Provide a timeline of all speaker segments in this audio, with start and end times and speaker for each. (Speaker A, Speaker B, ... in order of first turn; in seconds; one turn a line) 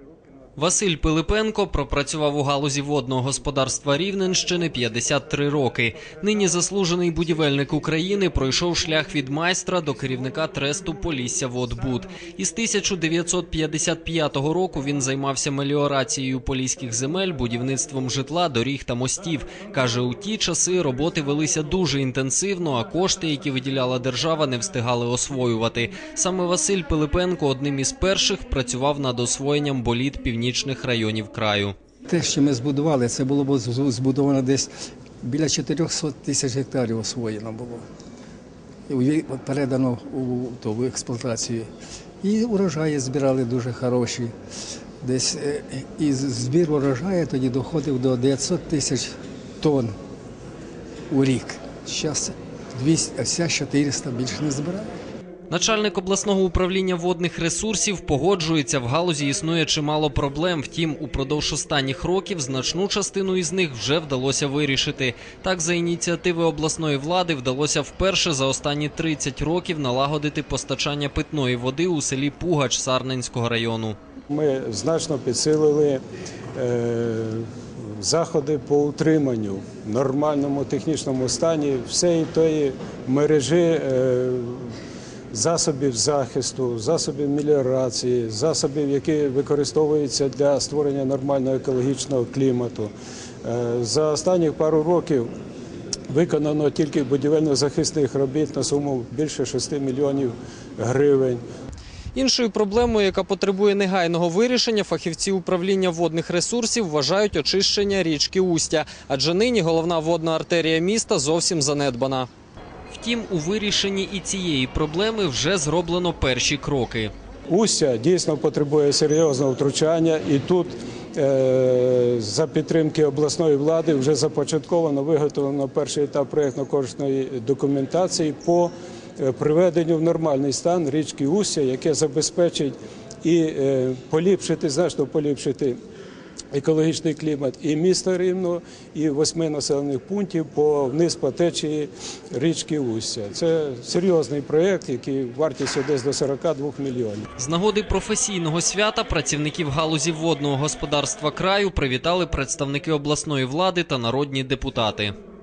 Speaker A: 0.6-31.8
Speaker B: 32.1-34.7
Speaker B: 35.2-37.9
Speaker B: 38.9-41.7
Speaker B: 42.2-44.3
Speaker B: 45.0-50.0
Speaker B: 51.1-54.9
Speaker A: 55.5-74.0
Speaker C: 74.3-76.0
Speaker C: 76.5-84.8
Speaker C: 85.3-92.9
Speaker C: 93.4-95.3
Speaker C: 96.1-101.4
Speaker A: 102.1-112.3
Speaker A: 112.9-117.1
Speaker C: 117.5-135.8
Speaker C: 136.5-147.3
Speaker A: 147.4-155.1